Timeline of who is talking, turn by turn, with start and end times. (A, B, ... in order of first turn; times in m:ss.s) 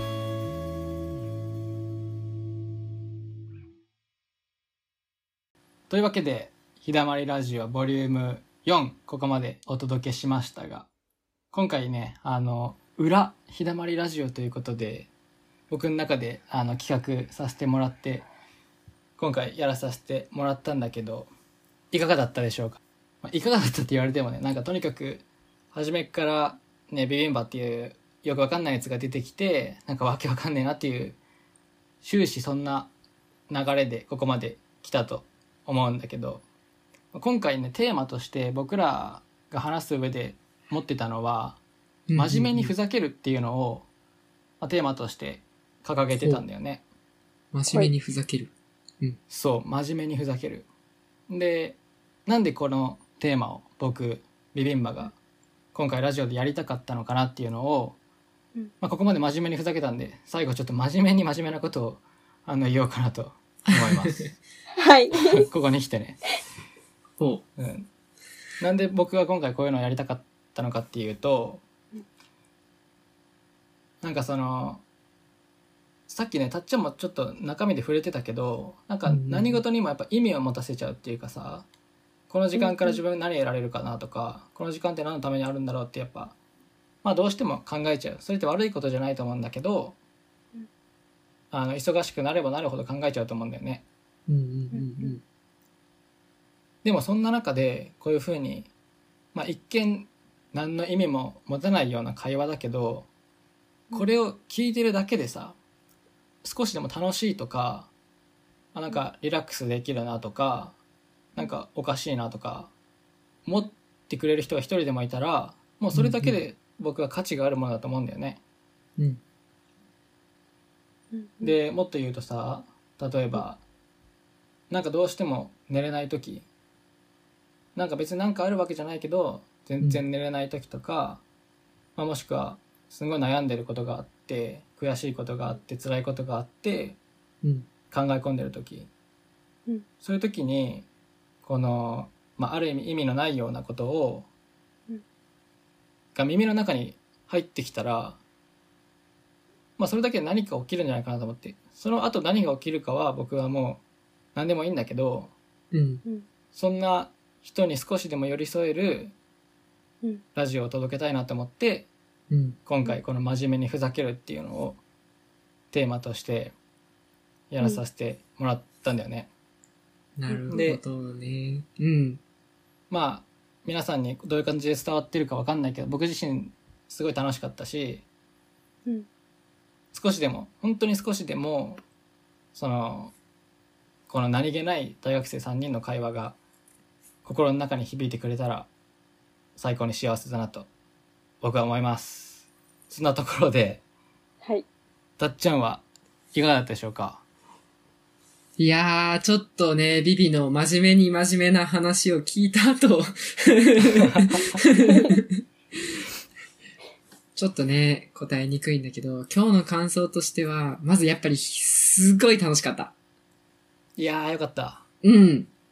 0:05.9-0:10.9 A
0:11.5-0:15.1 A
0:15.7-0:18.3 A
0:19.2-0:21.3 A
0:21.9-0:31.2 A
0:32.0-0:32.9 A
0:33.5-0:36.4 A
0:37.1-0:41.6 A
0:42.1-0:42.7 B
0:42.1-0:43.9 A
0:44.6-0:46.8 A
0:46.2-0:46.4 B
0:47.5-0:49.2 B
0:49.3-0:50.7 A
0:51.3-0:55.1 A
0:55.7-0:58.0 A
0:58.8-1:04.3 A
1:03.7-1:04.3 B
1:04.7-1:05.4 C
1:05.2-1:06.2 A
1:07.2-1:07.4 B
1:07.6-1:07.9 A
1:08.6-1:11.6 A
1:14.0-1:14.8 A
1:16.1-1:21.7 A
1:19.1-1:19.6 B
1:22.3-1:26.4 A
1:22.6-1:23.0 C
1:27.0-1:30.0 A
1:31.5-1:33.8 A
1:34.3-1:35.2 B
1:34.7-1:35.2 C
1:36.8-1:38.7 A
1:39.3-1:43.1 A
1:43.9-1:45.6 A
1:46.4-1:47.9 A
1:48.7-1:50.8 A
1:51.4-1:52.7 A
1:53.5-1:58.4 A
1:55.9-1:56.4 B
2:01.1-2:01.6 C
2:01.4-2:03.6 A
2:04.7-2:06.5 A
2:07.8-2:11.2 A
2:12.0-2:17.0 A
2:17.4-2:17.7 B
2:17.9-2:18.9 A
2:20.0-2:20.9 A
2:21.4-2:24.3 A
2:26.2-2:28.2 A
2:29.8-2:33.8 A
2:34.4-2:35.3 A
2:35.7-2:36.0 B
2:36.5-2:39.1 A
2:40.4-2:41.9 A
2:42.3-2:42.6 B
2:42.7-2:44.8 A
2:45.7-2:46.5 A
2:47.5-2:49.3 A
2:50.2-2:52.2 B
2:50.3-2:50.6 C
2:50.5-2:50.8 A
2:52.9-2:58.0 A
2:59.9-3:01.8 A
3:02.5-3:03.1 A
3:04.1-3:06.4 A
3:07.2-3:08.7 A
3:09.6-3:10.7 A
3:11.4-3:13.8 A
3:15.2-3:17.2 A
3:18.6-3:26.0 B
3:23.9-3:24.6 A
3:27.4-3:32.9 B
3:34.0-3:34.8 A
3:35.0-3:35.5 B